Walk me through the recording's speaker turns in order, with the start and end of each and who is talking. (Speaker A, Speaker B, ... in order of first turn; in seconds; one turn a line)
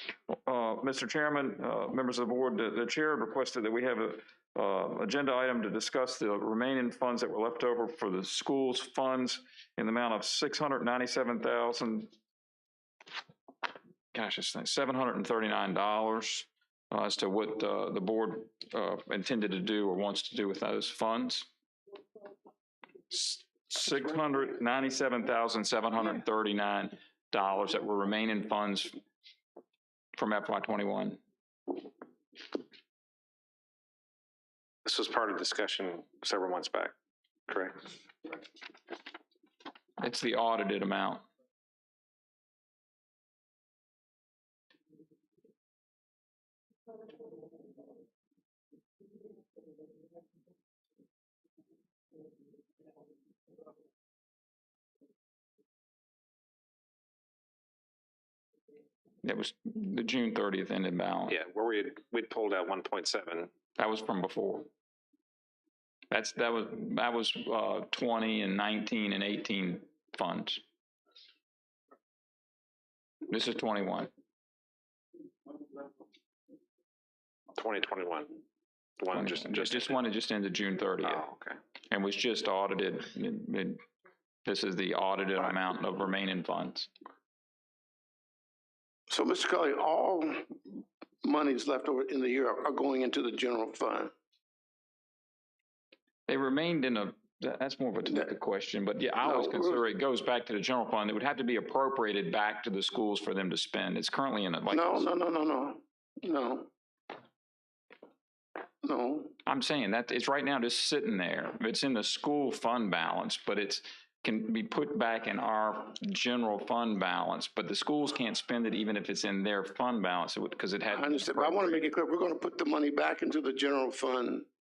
Speaker A: 0.3-12.1
Speaker A: 14.1-21.5
Speaker A: 23.1-29.0
Speaker A: 30.1-31.2
Speaker B: 34.8-36.9
Speaker B: 37.5-38.0
Speaker A: 40.0-41.2
Speaker A: 59.2-61.4
Speaker B: 61.3-63.5
Speaker A: 63.8-64.7
Speaker A: 66.1-70.6
Speaker A: 73.3-74.1
Speaker B: 77.5-78.4
Speaker B: 79.0-80.0
Speaker A: 79.1-81.2
Speaker B: 81.0-81.6
Speaker A: 81.9-83.8
Speaker A: 84.5-86.9
Speaker C: 89.1-94.1
Speaker A: 96.3-105.1
Speaker C: 99.2-99.8
Speaker C: 104.7-106.7
Speaker C: 108.8-109.3
Speaker A: 109.5-121.9
Speaker C: 120.9-124.5